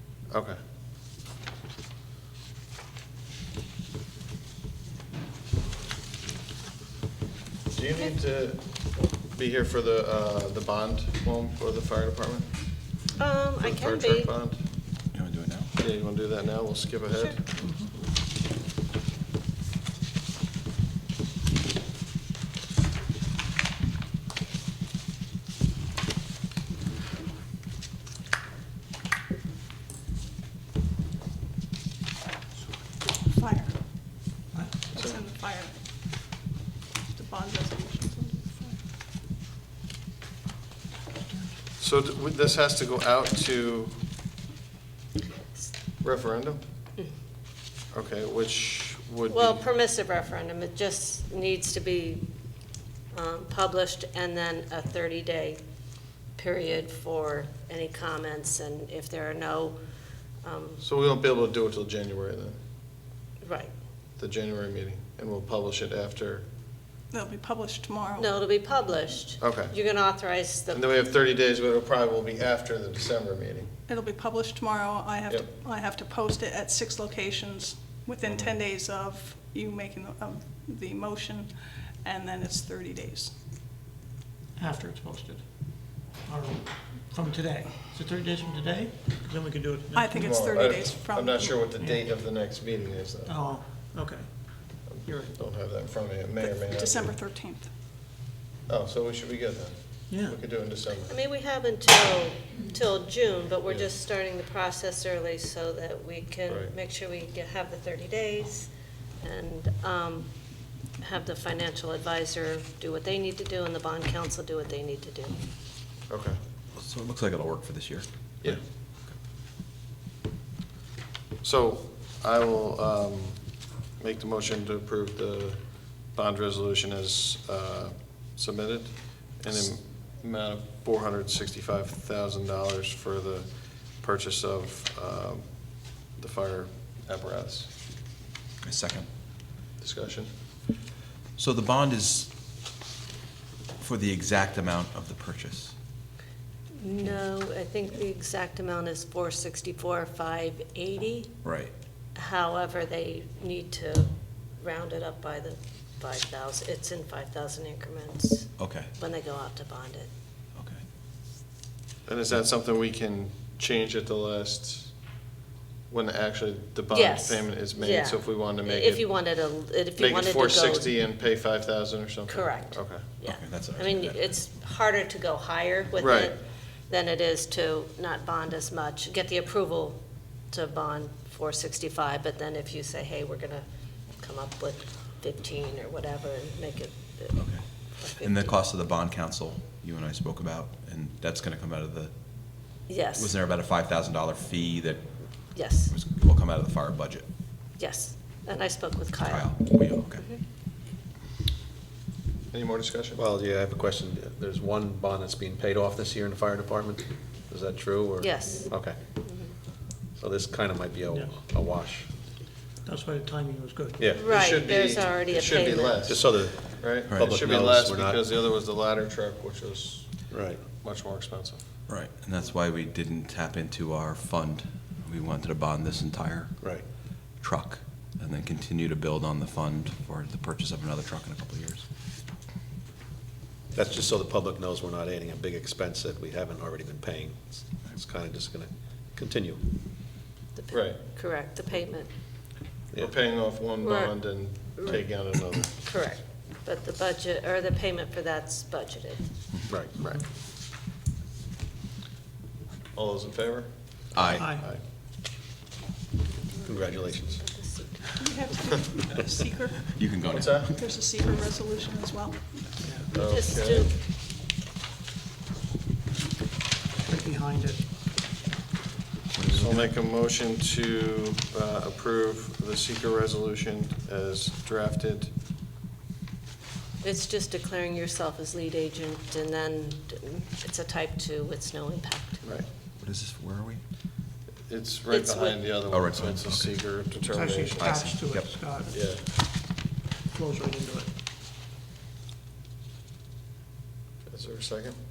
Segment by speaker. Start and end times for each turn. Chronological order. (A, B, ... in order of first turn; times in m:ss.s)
0:00.3-0:00.6 A
0:07.7-0:12.7 A
0:13.2-0:14.3 B
0:13.6-0:14.6 A
0:15.1-0:15.7 C
0:15.8-0:17.4 A
0:17.6-0:17.9 D
0:33.3-0:33.8 E
0:34.5-0:34.9 D
0:35.0-0:35.8 E
0:37.1-0:38.8 E
0:41.8-0:44.0 A
0:46.0-0:46.6 A
0:47.9-0:49.6 A
0:49.3-0:52.3 B
0:53.1-0:55.6 B
0:56.4-0:59.8 B
1:00.4-1:00.8 B
1:00.8-1:02.6 A
1:03.4-1:03.7 B
1:04.2-1:06.4 A
1:07.1-1:08.4 E
1:08.2-1:10.8 B
1:09.4-1:09.8 A
1:10.7-1:13.7 A
1:13.9-1:23.3 E
1:24.6-1:30.3 D
1:29.9-1:31.7 E
1:30.1-1:33.4 A
1:31.7-1:32.1 D
1:33.3-1:35.3 D
1:34.8-1:37.2 A
1:36.4-1:37.7 E
1:38.7-1:41.2 A
1:40.1-1:40.4 D
1:41.1-1:48.7 B
1:46.5-1:46.7 A
1:49.2-1:50.4 B
1:50.9-1:55.4 B
1:56.1-1:56.4 A
1:56.8-1:59.1 C
2:01.4-2:17.7 A
2:18.6-2:19.1 C
2:19.8-2:20.3 A
2:21.4-2:22.3 C
2:23.8-2:25.7 C
2:26.8-2:31.3 B
2:31.4-2:31.7 C
2:32.2-2:40.1 B
2:38.6-2:38.9 C
2:40.6-2:40.8 C
2:42.1-2:44.9 A
2:45.9-2:49.1 A
2:46.9-2:50.9 B
2:50.0-2:53.1 A
2:52.3-3:00.0 B
2:53.2-2:54.3 C
2:56.0-2:56.4 A
3:00.5-3:03.7 B
3:04.2-3:08.6 B
3:07.3-3:17.3 C
3:12.9-3:13.4 B
3:15.6-3:15.9 B
3:17.8-3:20.4 B
3:19.2-3:20.3 C
3:22.5-3:23.2 A
3:23.2-3:29.0 F
3:28.2-3:28.7 B
3:29.2-3:29.5 B
3:30.2-3:32.1 F
3:31.1-3:31.4 D
3:32.8-3:34.1 D
3:34.0-3:34.3 F
3:34.2-3:36.1 B
3:34.2-3:41.6 A
3:36.1-3:38.3 F
3:40.3-3:40.6 F
3:41.9-3:51.9 C
3:46.6-3:46.9 F
3:53.7-3:59.6 F
4:00.6-4:02.1 B
4:00.7-4:01.0 A
4:03.0-4:05.7 A
4:03.8-4:09.2 B
4:09.7-4:10.0 F
4:12.9-4:14.8 A
4:14.1-4:14.6 C
4:14.4-4:14.7 D
4:16.5-4:18.1 B
4:16.6-4:17.7 F
4:18.2-4:22.8 E
4:19.9-4:21.0 C
4:20.3-4:20.7 A
4:22.8-4:23.1 D
4:23.1-4:24.0 A
4:23.1-4:24.0 B
4:27.0-4:27.8 D
4:29.3-4:29.9 C
4:29.5-4:35.3 A
4:37.0-4:42.6 B
4:43.0-4:43.8 C
4:44.7-4:48.0 A
4:45.1-4:45.6 B
4:45.9-4:46.9 C
4:47.3-4:49.0 D
4:47.8-4:48.5 C
4:48.9-4:49.3 A
4:50.3-4:51.1 D
4:54.3-4:55.0 A